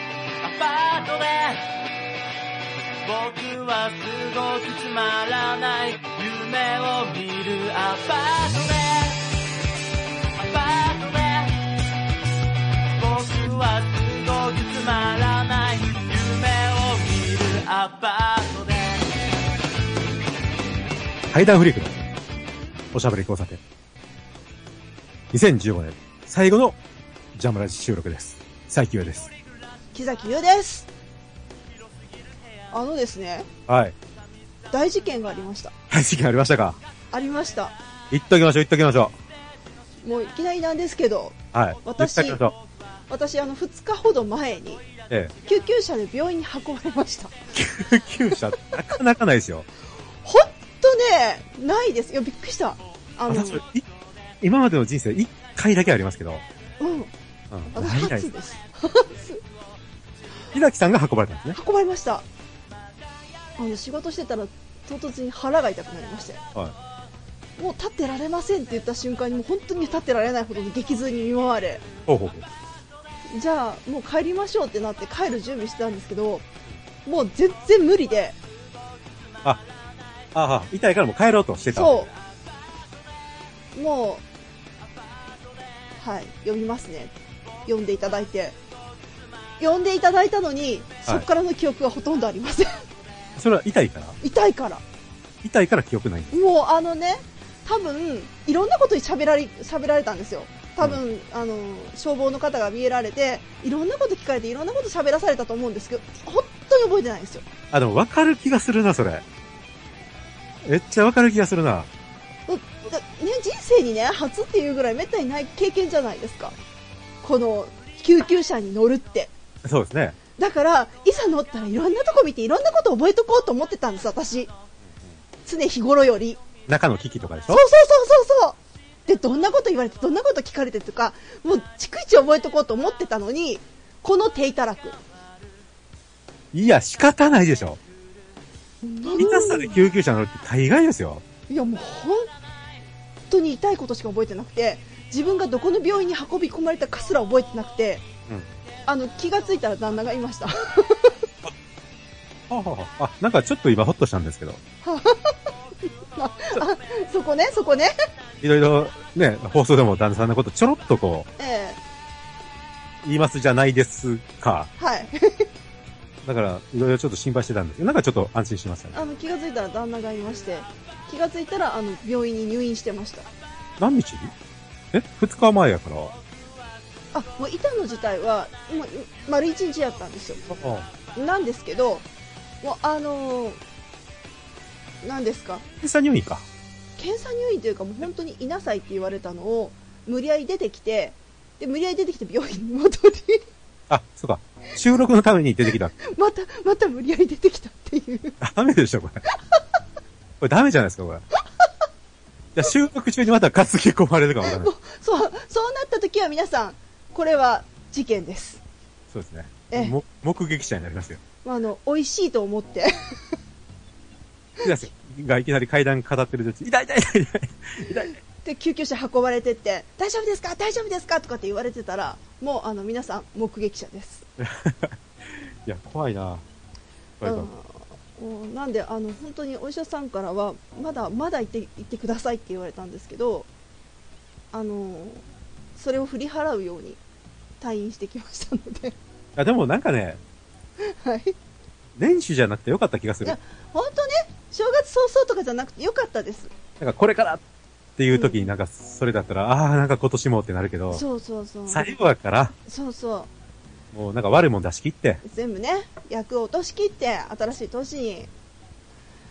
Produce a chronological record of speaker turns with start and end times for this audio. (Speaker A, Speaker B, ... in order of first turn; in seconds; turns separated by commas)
Speaker A: 0.4-1.7, Speaker A: 3.0-9.2, Speaker A: 10.4-11.7, Speaker A: 13.0-19.1, Speaker B: 21.3-22.0, Speaker B: 22.9-23.6, Speaker B: 25.3-26.8, Speaker B: 27.4-29.3, Speaker C: 29.9-30.9, Speaker C: 32.7-33.5, Speaker B: 33.7-34.0, Speaker C: 34.7-35.7, Speaker B: 35.9-36.8, Speaker C: 37.1-37.8, Speaker B: 38.1-39.1, Speaker C: 40.0-42.4, Speaker B: 41.5-42.5, Speaker C: 43.1-44.8, Speaker C: 45.4-47.4, Speaker B: 47.5-49.7, Speaker C: 50.2-53.6, Speaker B: 53.3-53.9, Speaker B: 54.4-56.4, Speaker C: 56.8-57.1, Speaker B: 57.5-58.3, Speaker C: 57.7-59.4, Speaker B: 60.5-61.6, Speaker C: 61.5-62.3, Speaker C: 63.6-66.4, Speaker C: 67.6-71.8, Speaker B: 72.1-72.5, Speaker C: 73.3-76.5, Speaker C: 77.0-78.4, Speaker B: 80.3-82.1, Speaker C: 81.7-82.1, Speaker C: 83.8-84.2, Speaker C: 86.0-87.1, Speaker C: 87.7-88.6, Speaker C: 89.6-92.8, Speaker B: 93.4-94.2, Speaker C: 94.2-94.8, Speaker B: 95.4-96.4, Speaker C: 96.3-107.5, Speaker B: 107.7-109.2, Speaker B: 110.6-111.9, Speaker C: 112.5-116.5, Speaker C: 117.2-119.3, Speaker B: 119.6-120.2, Speaker C: 120.4-124.5, Speaker C: 125.5-126.4, Speaker B: 126.7-127.6, Speaker C: 127.5-135.0, Speaker B: 136.5-137.8, Speaker C: 138.8-139.8, Speaker B: 139.2-141.2, Speaker C: 141.5-142.3, Speaker C: 143.3-148.0, Speaker C: 148.9-151.3, Speaker B: 152.5-154.6, Speaker C: 154.8-157.9, Speaker B: 158.4-161.3, Speaker C: 161.4-161.8, Speaker B: 163.0-164.7, Speaker C: 164.8-165.5, Speaker B: 166.2-169.0, Speaker C: 168.9-173.3, Speaker B: 173.8-174.3, Speaker B: 174.9-176.1, Speaker C: 177.1-180.5, Speaker B: 180.5-180.9, Speaker C: 181.2-182.1, Speaker C: 182.6-183.6, Speaker C: 185.0-185.7, Speaker B: 185.8-186.4, Speaker C: 187.0-193.5, Speaker B: 193.9-195.9, Speaker C: 196.0-198.4, Speaker B: 198.4-199.2, Speaker C: 199.3-199.6, Speaker B: 200.4-201.3, Speaker B: 202.6-204.7, Speaker C: 204.4-208.6, Speaker B: 209.1-211.2, Speaker C: 211.4-213.4, Speaker B: 214.6-218.2, Speaker C: 218.4-224.3, Speaker B: 224.4-226.4, Speaker B: 227.2-227.5, Speaker C: 227.2-233.5, Speaker C: 234.5-235.2, Speaker C: 235.8-237.0, Speaker C: 237.6-239.0, Speaker B: 239.4-240.2, Speaker C: 240.8-241.4, Speaker B: 242.0-243.4, Speaker C: 243.2-246.5, Speaker B: 246.8-247.4, Speaker B: 248.0-251.0, Speaker C: 248.1-248.5, Speaker C: 250.9-251.9, Speaker B: 251.7-252.5, Speaker C: 252.7-253.3, Speaker B: 253.9-255.2, Speaker C: 255.2-258.3